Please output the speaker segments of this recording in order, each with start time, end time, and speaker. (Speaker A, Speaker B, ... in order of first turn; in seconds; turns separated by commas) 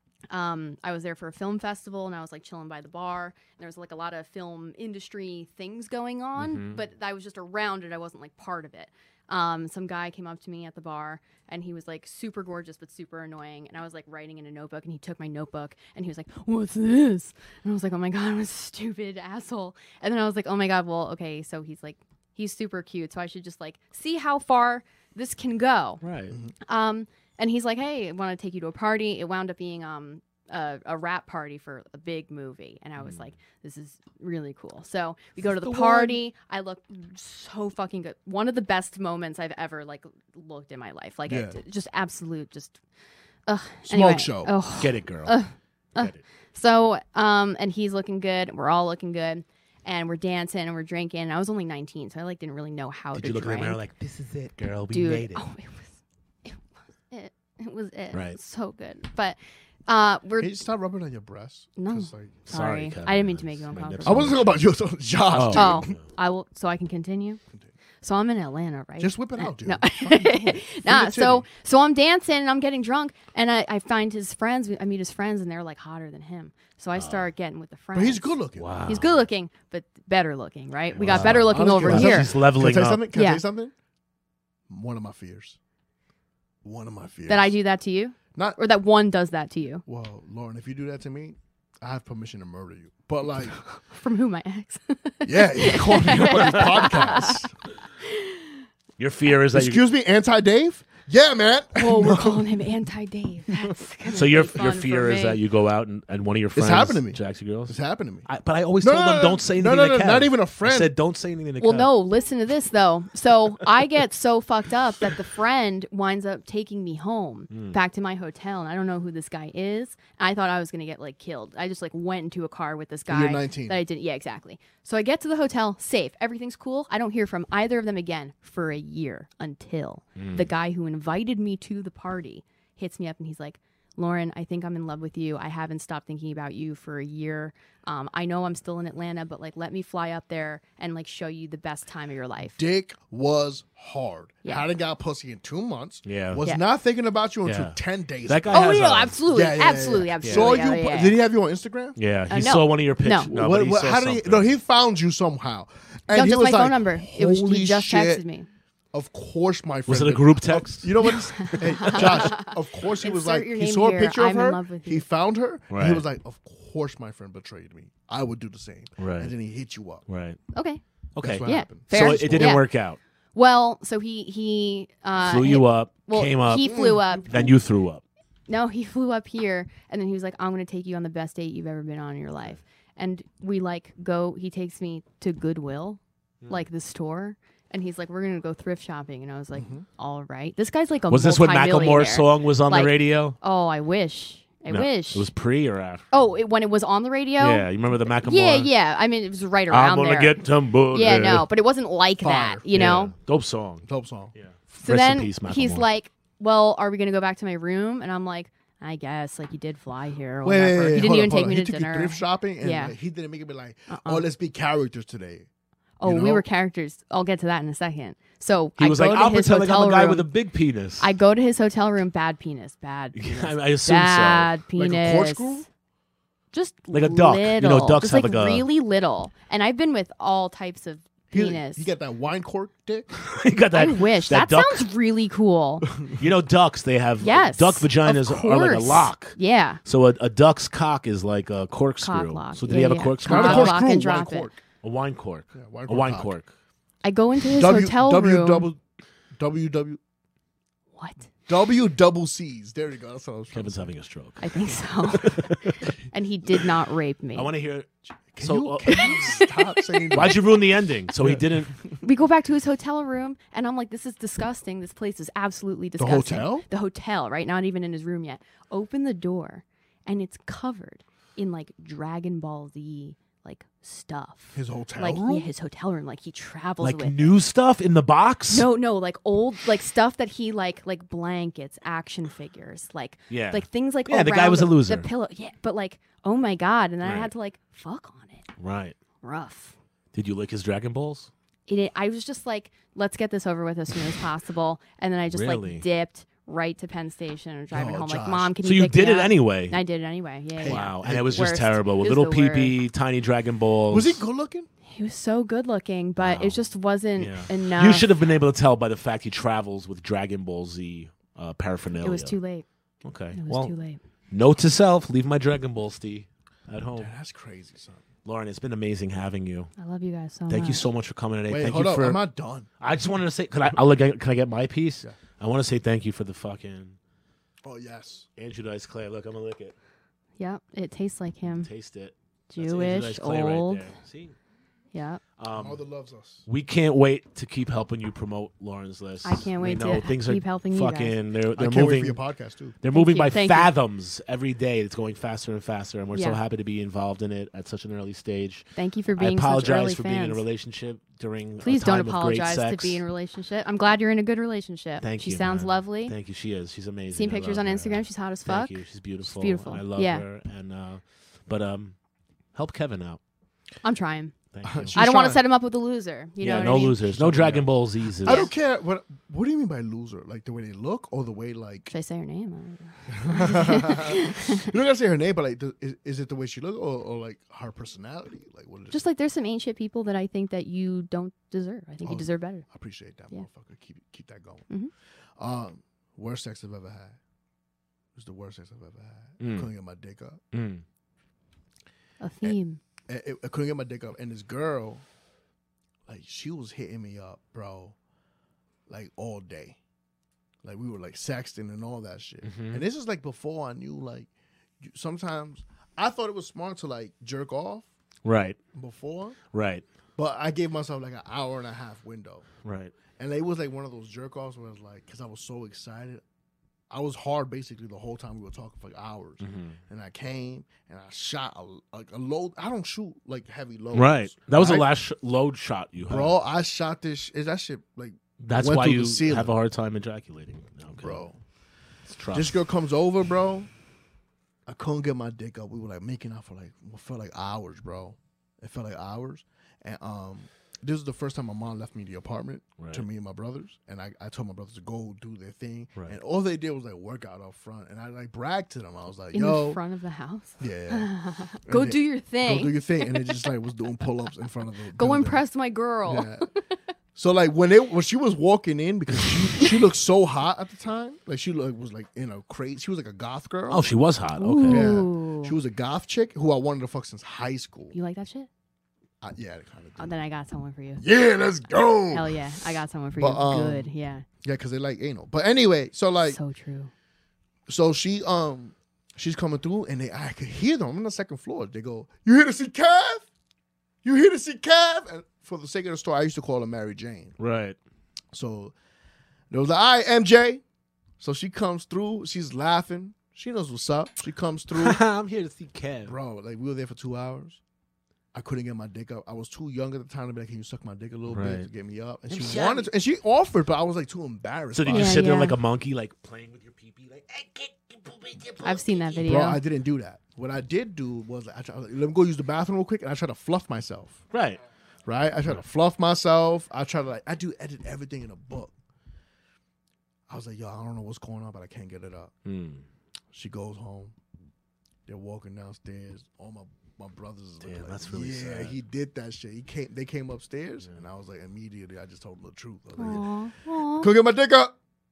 Speaker A: 0.3-26.0, Speaker B: 6.4-6.8, Speaker B: 26.0-26.4, Speaker A: 26.6-42.8, Speaker B: 33.0-33.3, Speaker B: 35.6-36.2, Speaker C: 41.3-41.6, Speaker A: 43.5-53.8, Speaker C: 43.8-44.5, Speaker B: 44.8-45.4, Speaker B: 53.1-55.4, Speaker A: 54.9-60.6, Speaker B: 58.1-58.4, Speaker C: 60.4-62.3, Speaker A: 61.8-64.4, Speaker B: 62.5-64.6, Speaker C: 64.0-65.9, Speaker B: 65.3-66.0, Speaker A: 65.5-67.4, Speaker A: 68.0-82.3, Speaker C: 69.0-71.4, Speaker B: 77.0-77.3, Speaker C: 77.9-78.7, Speaker B: 78.6-79.2, Speaker B: 81.0-83.0, Speaker C: 81.0-83.7, Speaker A: 83.1-83.4, Speaker C: 84.7-85.6, Speaker C: 86.6-87.5, Speaker A: 87.3-89.8, Speaker C: 89.8-93.6, Speaker A: 93.6-97.5, Speaker C: 95.2-97.5, Speaker B: 96.1-97.0, Speaker A: 98.0-98.6, Speaker B: 99.0-99.8, Speaker C: 99.5-102.4, Speaker A: 101.7-105.4, Speaker B: 104.1-111.9, Speaker C: 106.5-108.3, Speaker C: 108.8-110.9, Speaker A: 111.6-142.6, Speaker B: 117.5-117.8, Speaker C: 123.1-123.8, Speaker B: 130.2-130.5, Speaker C: 142.6-148.7, Speaker B: 146.0-146.4, Speaker B: 147.4-149.2, Speaker A: 148.5-151.2, Speaker C: 149.2-152.0, Speaker B: 150.2-150.6, Speaker B: 151.9-154.5, Speaker A: 152.3-153.3, Speaker C: 153.3-158.2, Speaker A: 156.1-158.5, Speaker C: 158.9-170.0, Speaker B: 159.9-162.3, Speaker A: 161.0-165.0, Speaker B: 165.7-166.0, Speaker B: 169.0-169.3, Speaker B: 170.1-170.4, Speaker A: 170.5-170.8, Speaker B: 171.1-173.0, Speaker C: 171.2-172.6, Speaker A: 171.4-172.7, Speaker A: 173.3-177.5, Speaker B: 175.2-176.7, Speaker C: 176.6-177.5, Speaker B: 177.2-178.0, Speaker A: 178.5-195.3, Speaker C: 189.5-189.8, Speaker B: 191.1-193.4, Speaker B: 194.7-196.1, Speaker A: 196.1-203.1, Speaker B: 197.4-198.7, Speaker B: 199.7-201.5, Speaker C: 202.2-202.6, Speaker B: 202.7-205.9, Speaker C: 203.8-204.3, Speaker A: 204.7-212.9, Speaker C: 210.4-215.5, Speaker A: 213.9-214.2, Speaker A: 216.0-220.3, Speaker C: 216.0-216.4, Speaker B: 218.8-221.1, Speaker A: 221.0-225.7, Speaker B: 223.2-224.6, Speaker C: 224.7-225.7, Speaker A: 226.5-231.9, Speaker B: 226.9-228.7, Speaker C: 231.3-233.1, Speaker B: 233.2-234.9, Speaker A: 233.7-235.9, Speaker B: 236.2-243.8, Speaker A: 237.2-239.8, Speaker A: 242.0-244.5, Speaker C: 243.2-244.6, Speaker B: 244.8-246.5, Speaker C: 245.5-246.3, Speaker A: 247.0-248.7, Speaker C: 247.5-248.8, Speaker C: 249.3-250.0, Speaker A: 250.9-251.3, Speaker C: 251.5-253.8, Speaker B: 253.5-255.9, Speaker A: 254.4-255.6, Speaker A: 256.1-257.5, Speaker B: 257.3-259.4, Speaker C: 258.3-260.4, Speaker A: 258.8-260.4, Speaker B: 260.1-261.7, Speaker C: 261.2-261.9, Speaker A: 262.0-277.4, Speaker C: 266.0-266.6, Speaker C: 274.5-275.5, Speaker B: 276.8-278.7, Speaker A: 278.5-288.5, Speaker B: 283.3-285.1, Speaker B: 287.0-287.3, Speaker B: 288.6-288.9, Speaker A: 289.2-289.7, Speaker B: 290.1-291.3, Speaker A: 291.7-302.8, Speaker B: 295.3-295.8, Speaker C: 297.7-298.5, Speaker B: 298.6-299.8, Speaker C: 300.6-301.6, Speaker B: 300.6-304.2, Speaker C: 303.9-304.7, Speaker A: 304.9-308.1, Speaker B: 306.2-306.6, Speaker B: 307.2-312.4, Speaker A: 312.0-312.6, Speaker B: 313.0-313.7, Speaker A: 313.3-314.0, Speaker B: 314.3-317.1, Speaker C: 316.9-318.0, Speaker B: 318.2-319.7, Speaker A: 319.8-320.9, Speaker B: 320.5-322.2, Speaker C: 321.5-322.7, Speaker B: 322.8-326.9, Speaker C: 327.6-328.3, Speaker B: 328.4-329.7, Speaker A: 330.4-331.7, Speaker B: 331.6-334.3, Speaker A: 332.5-333.9, Speaker A: 334.9-335.2, Speaker B: 335.4-335.8, Speaker C: 335.5-336.4, Speaker B: 336.5-342.2, Speaker A: 339.2-341.2, Speaker C: 341.6-342.8, Speaker B: 342.8-353.0, Speaker A: 342.9-343.7, Speaker A: 346.1-346.4, Speaker A: 348.8-350.4, Speaker A: 351.6-356.1, Speaker B: 355.0-361.9, Speaker A: 357.1-360.2, Speaker B: 362.5-363.2, Speaker A: 363.8-364.3, Speaker B: 364.5-365.0, Speaker C: 364.6-365.4, Speaker A: 364.9-367.0, Speaker B: 366.4-368.5, Speaker C: 366.6-367.7, Speaker C: 368.2-371.9, Speaker A: 368.2-368.5, Speaker A: 371.9-374.7, Speaker C: 373.1-379.0, Speaker A: 378.9-382.6, Speaker C: 382.0-384.7, Speaker C: 385.4-387.2, Speaker C: 388.1-390.4, Speaker B: 389.4-389.7, Speaker B: 390.5-390.8, Speaker A: 392.2-392.8, Speaker C: 393.1-395.0, Speaker C: 396.1-397.9, Speaker C: 398.9-399.8, Speaker C: 400.6-404.3, Speaker B: 402.4-402.8, Speaker C: 404.8-407.9, Speaker B: 408.2-408.6, Speaker C: 408.7-409.4, Speaker B: 409.5-409.8, Speaker C: 410.2-412.4, Speaker B: 412.6-412.9, Speaker C: 413.2-416.2, Speaker C: 416.9-424.9, Speaker B: 419.4-419.8, Speaker B: 423.9-426.3, Speaker C: 426.1-429.5, Speaker B: 428.4-431.2, Speaker C: 431.0-431.4, Speaker B: 432.1-432.6, Speaker C: 432.3-433.7, Speaker C: 434.6-449.8, Speaker B: 442.8-443.0, Speaker A: 449.3-453.4, Speaker C: 450.6-451.1, Speaker C: 451.6-455.4, Speaker A: 454.9-456.4, Speaker C: 456.0-456.5, Speaker C: 457.1-463.8, Speaker B: 463.7-465.0, Speaker A: 464.4-465.6, Speaker C: 464.7-467.9, Speaker A: 467.9-468.5, Speaker C: 469.2-470.1, Speaker A: 470.0-471.0, Speaker C: 471.0-472.4, Speaker A: 472.1-474.2, Speaker C: 473.2-473.9, Speaker C: 474.4-476.4, Speaker A: 476.3-476.9, Speaker C: 477.7-483.2, Speaker C: 484.0-487.4, Speaker B: 487.4-487.8, Speaker C: 488.3-488.7, Speaker C: 489.5-490.6, Speaker C: 491.2-495.0, Speaker B: 494.7-496.1, Speaker C: 496.1-497.6, Speaker C: 498.3-505.3, Speaker B: 501.3-501.7, Speaker B: 502.3-502.8, Speaker B: 504.7-509.3, Speaker A: 504.9-505.6, Speaker A: 508.6-509.6, Speaker C: 509.2-514.2, Speaker B: 514.3-514.6, Speaker C: 515.0-518.7, Speaker C: 520.3-522.3, Speaker B: 522.5-522.8, Speaker C: 523.3-524.1, Speaker C: 525.0-533.2, Speaker B: 527.6-528.7, Speaker A: 533.0-534.1, Speaker C: 533.9-534.7